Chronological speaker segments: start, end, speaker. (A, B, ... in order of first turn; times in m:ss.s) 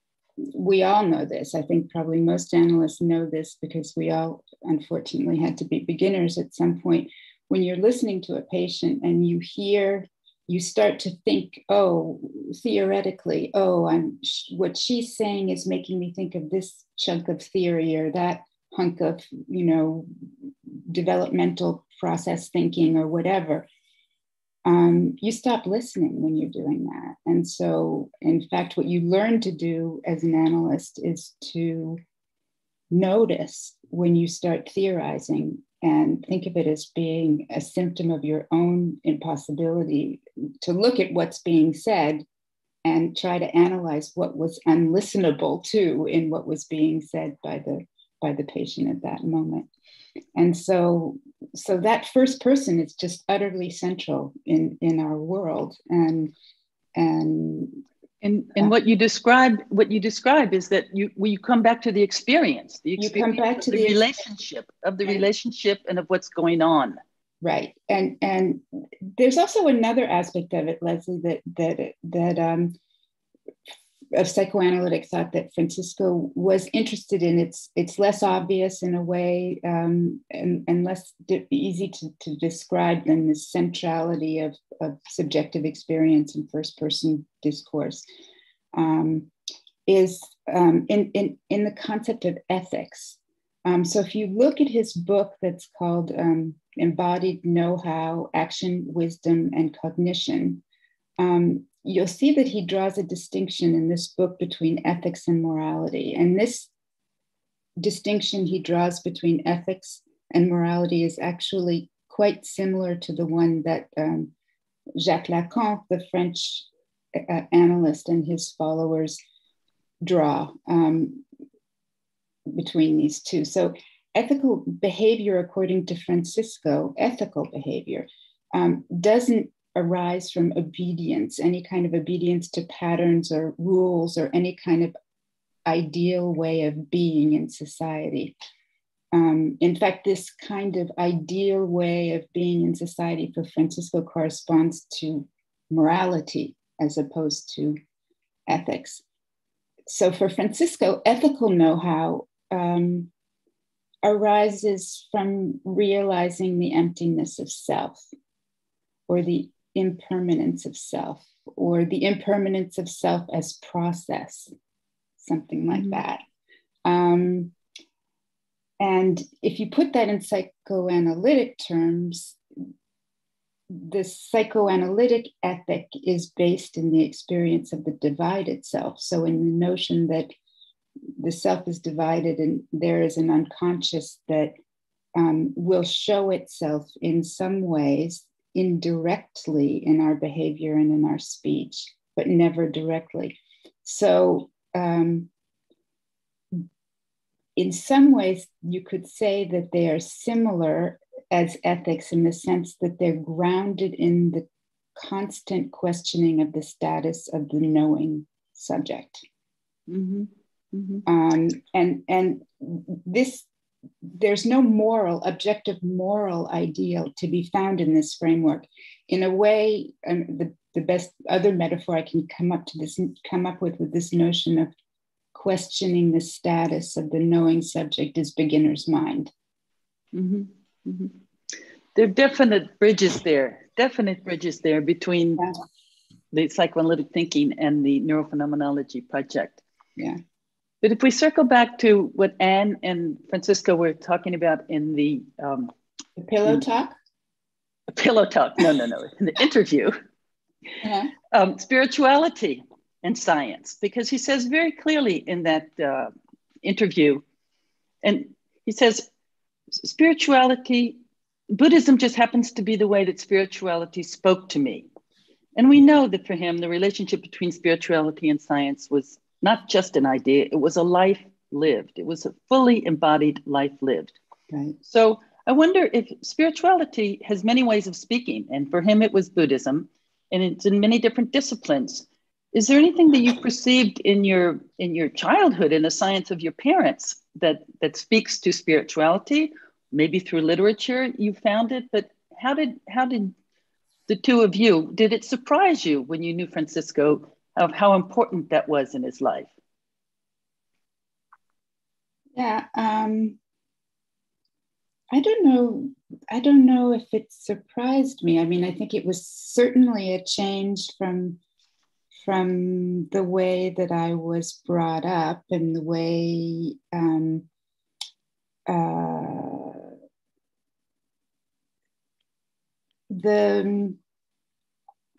0:00.4-0:20.1 A
0:20.9-0:23.7 A
0:24.6-0:32.0 A
0:32.9-0:42.2 A
0:42.8-0:49.7 A
0:50.3-0:56.3 A
0:56.9-0:57.8 A
0:58.2-1:07.0 B
1:03.0-1:04.0 A
1:07.4-1:12.8 A
1:14.1-1:28.0 A
1:28.7-1:29.3 A
1:29.8-1:40.6 A
1:41.2-1:46.7 A
1:47.8-1:54.3 A
1:55.0-1:59.2 A
2:00.0-2:01.2 A
2:02.5-2:14.9 A
2:15.6-2:18.3 A
2:19.1-2:27.8 A
2:28.5-2:29.0 A
2:29.9-2:33.1 A
2:34.0-2:38.0 A
2:39.1-2:44.5 A
2:45.2-2:46.2 A
2:46.8-2:47.5 A
2:48.8-2:52.4 A
2:53.7-3:00.3 A
3:01.2-3:04.5 A
3:05.1-3:15.3 A
3:17.6-3:29.2 A
3:29.9-3:31.0 B
3:31.0-3:33.5 A
3:34.0-3:44.7 A
3:45.3-3:49.3 A
3:50.1-3:51.1 B
3:51.9-3:55.4 B
3:56.3-3:59.6 B
4:00.8-4:05.7 B
4:06.2-4:07.0 A
4:07.9-4:09.9 B
4:10.8-4:11.1 A
4:11.3-4:16.1 B
4:16.6-4:17.2 B
4:18.0-4:19.1 B
4:19.8-4:21.0 B
4:21.5-4:24.9 B
4:25.5-4:34.2 B
4:34.5-4:34.8 A
4:34.8-4:53.3 B
4:54.1-4:59.5 B
5:02.3-5:03.4 A
5:05.1-5:11.4 A
5:12.2-5:17.4 A
5:18.7-5:19.8 A
5:23.1-5:24.0 A